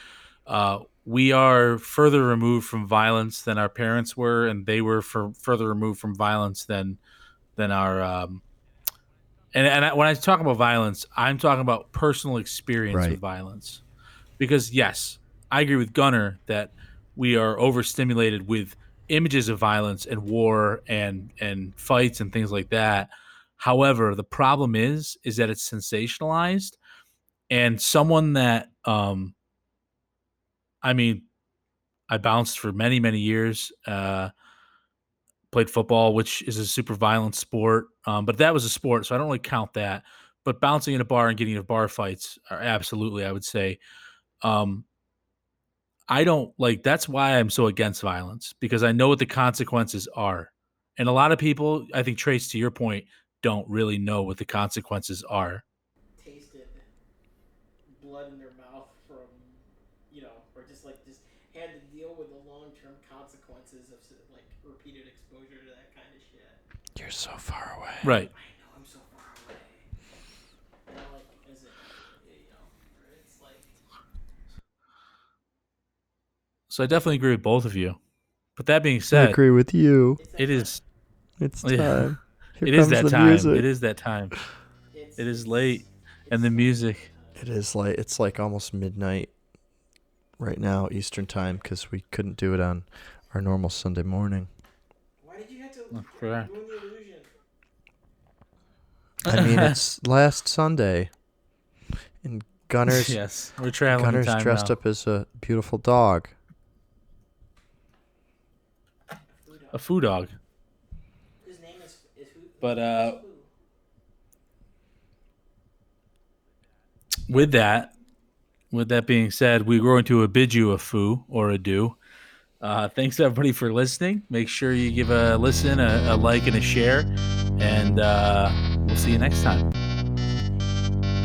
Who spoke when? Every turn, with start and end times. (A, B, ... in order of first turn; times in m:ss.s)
0:00.4-0:07.0 A
0:07.6-0:08.4 A
0:09.5-0:13.8 A
0:12.9-0:13.2 B
0:14.4-0:26.8 A
0:27.5-0:29.3 A
0:30.8-0:31.3 A
0:32.1-0:34.3 A
0:35.5-0:43.8 A
0:44.4-0:44.8 A
0:46.1-0:55.6 A
0:56.2-0:56.8 C
0:57.9-1:06.6 C
1:07.0-1:08.1 B
1:08.0-1:08.3 A
1:08.3-1:09.9 C
1:10.9-1:13.7 C
1:16.7-1:18.0 A
1:18.6-1:19.4 A
1:19.1-1:20.2 B
1:20.2-1:20.8 C
1:20.4-1:20.8 A
1:21.4-1:23.6 B
1:21.6-1:24.4 A
1:24.9-1:27.4 C
1:25.2-1:27.1 A
1:27.4-1:29.3 B
1:30.4-1:34.5 B
1:35.2-1:37.3 C
1:35.9-1:36.5 A
1:39.2-1:39.7 A
1:39.3-1:41.1 B
1:42.2-1:43.2 B
1:42.9-1:44.7 A
1:43.9-1:46.3 B
1:49.3-1:49.9 C
1:49.7-1:50.3 A
1:51.4-1:53.5 C
1:52.6-1:53.2 A
1:57.3-1:57.9 A
1:58.7-2:02.0 A
2:02.6-2:09.6 A